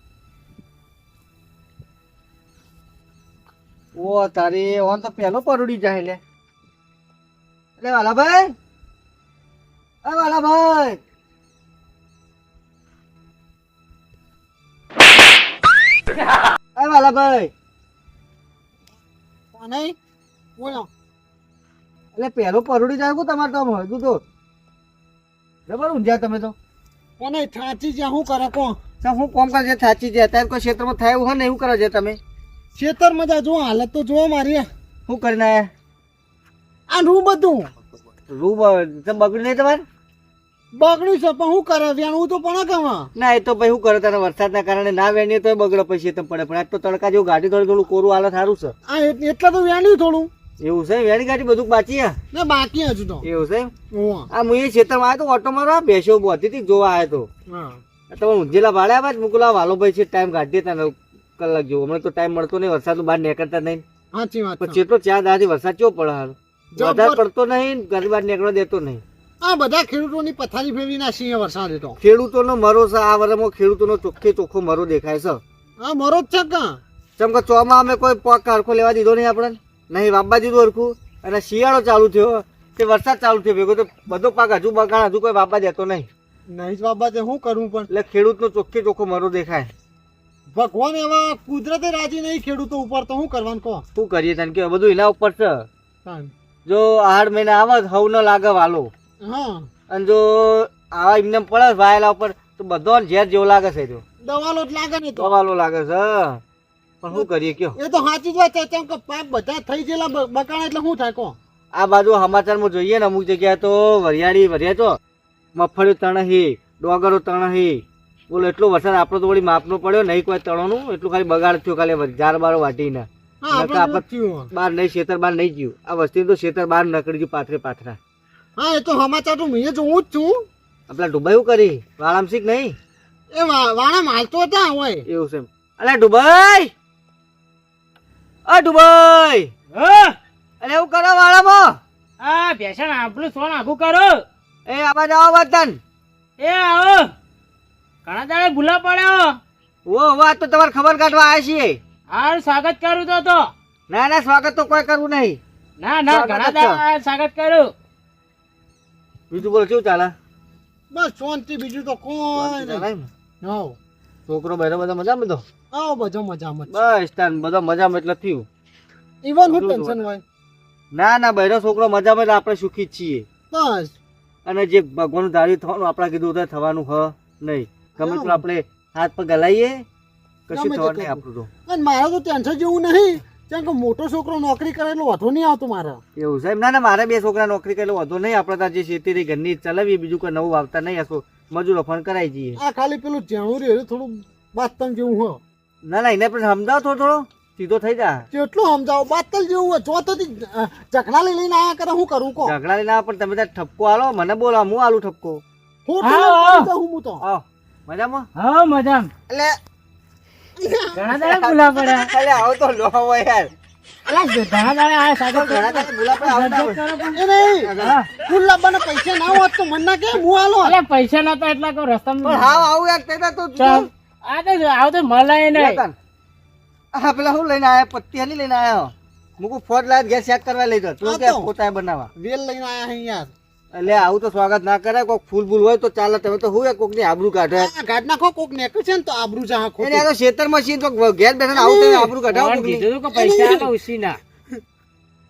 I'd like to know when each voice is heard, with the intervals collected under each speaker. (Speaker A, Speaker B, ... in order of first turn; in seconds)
Speaker A: 4.0-6.2, 7.8-8.5, 10.0-11.0, 16.8-17.5, 22.1-24.2, 25.7-26.5, 29.0-32.2, 35.1-35.7, 38.3-39.8, 43.1-48.7, 50.6-52.2, 53.2-53.7, 54.3-57.3, 58.1-63.8, 64.6-69.0, 72.0-75.4, 77.2-86.1, 87.9-89.7, 93.9-95.7, 96.7-98.9, 99.9-104.0, 105.2-106.4, 107.0-107.8, 111.7-115.0, 115.5-128.0, 130.9-132.8, 135.1-136.7, 138.4-139.5, 140.6-141.8, 144.7-145.8, 149.8-151.8, 153.9-155.4, 156.1-156.8, 159.3-160.1, 162.3-163.1, 164.3-165.4, 166.7-168.5, 169.4-170.0, 170.9-173.3, 174.4-179.8, 180.5-181.5, 186.2-192.6, 195.8-198.2, 202.4-205.4, 207.2-208.3, 209.3-209.6, 211.0-213.5, 215.3-216.8, 217.6-218.0, 222.2-223.9, 225.5-225.9, 226.9-232.1, 233.7-237.7, 239.8-242.9
Speaker B: 19.5-19.9, 20.6-20.9, 27.2-28.8, 32.7-34.7, 36.9-37.7, 40.7-43.1, 48.9-50.3, 52.3-53.2, 53.9-54.3, 57.5-57.8, 64.1-64.8, 66.8-67.2, 69.4-72.0, 75.8-76.8, 86.5-87.9, 90.5-93.8, 96.0-96.3, 99.2-99.7, 104.2-105.3, 107.1-111.3, 123.4-124.5, 128.6-130.4, 133.3-135.1, 160.9-162.8, 163.4-163.8, 165.7-166.9, 169.2-170.2, 173.5-173.9, 178.0-178.4, 180.5-186.0, 192.6-195.4, 198.3-202.5, 205.8-207.2, 210.6-211.0, 217.1-220.8, 231.0-231.5, 232.2-233.3, 237.5-240.1, 241.5-242.1, 243.1-243.7
Speaker C: 139.7-140.1, 142.2-144.2, 146.4-147.1, 148.0-149.4, 152.1-153.5, 155.8-157.7, 206.0-206.7, 208.3-209.1, 210.9-212.1, 214.1-217.2, 217.8-218.1, 220.6-222.7, 223.6-225.8, 242.3-244.2